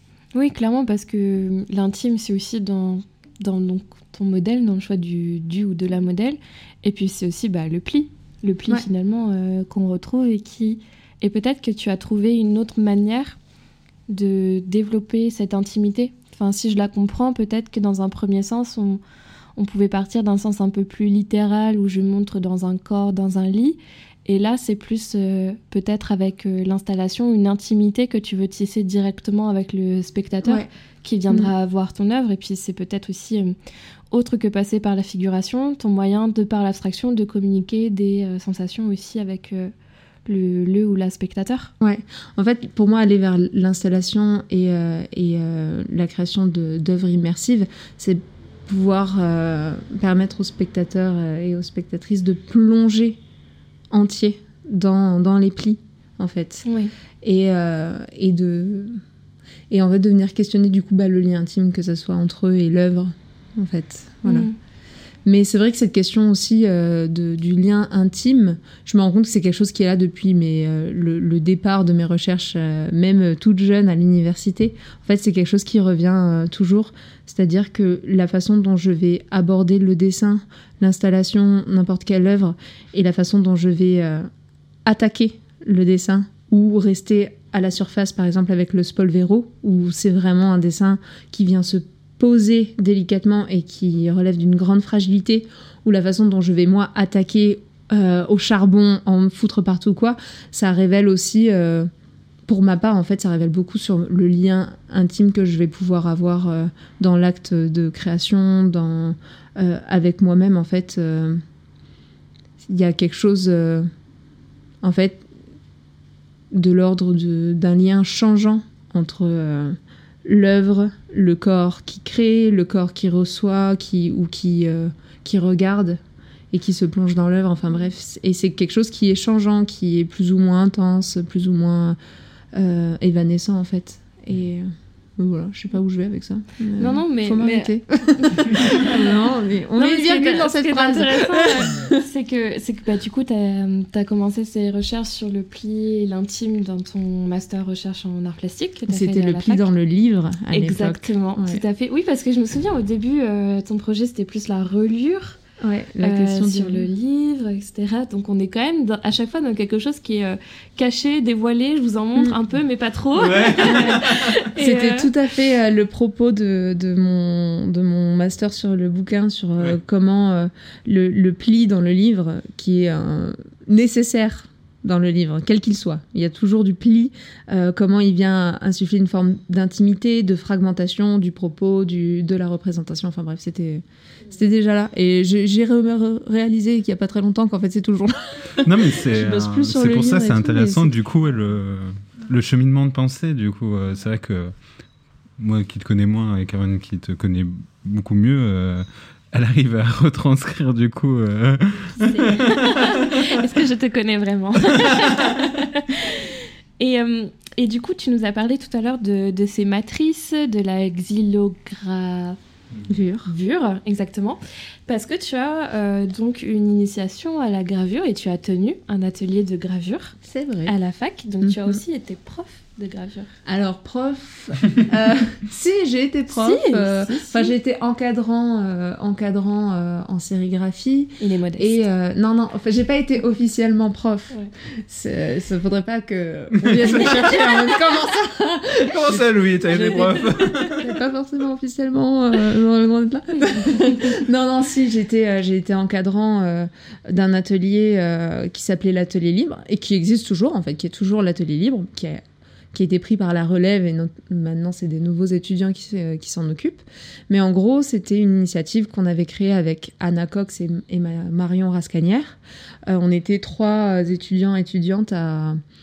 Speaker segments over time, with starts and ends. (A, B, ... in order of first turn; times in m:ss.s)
0:00.3-0:13.4 A
0:14.1-0:19.0 A
0:19.6-0:33.6 A
0:34.1-0:39.7 A
0:40.3-0:41.7 A
0:41.8-0:53.2 B
0:53.9-0:56.7 B
0:56.6-0:56.9 A
0:57.2-0:59.0 B
0:59.7-1:04.5 B
1:04.2-1:04.6 A
1:05.2-1:24.3 B
1:24.8-1:41.9 B
1:42.5-1:51.4 B
1:52.6-1:53.9 B
1:54.8-1:55.2 B
1:56.5-2:06.0 B
2:06.5-2:12.0 B
2:12.5-2:21.9 B
2:16.8-2:18.9 A
2:19.8-2:29.7 A
2:28.9-2:31.6 B
2:30.5-2:35.4 A
2:35.6-2:36.9 B
2:36.0-2:45.1 A
2:43.2-2:44.3 C
2:43.7-2:44.0 B
2:44.6-3:11.0 B
3:08.6-3:14.5 C
3:15.4-3:22.8 C
3:22.0-3:32.4 A
3:32.9-3:33.3 B
3:33.3-3:40.2 A
3:40.2-3:40.7 B
3:40.7-3:43.3 A
3:41.4-3:41.8 B
3:43.5-4:12.2 B
3:46.3-3:47.5 A
3:51.2-3:51.8 A
3:56.6-3:57.6 C
3:58.9-4:00.8 C
4:12.7-4:25.6 B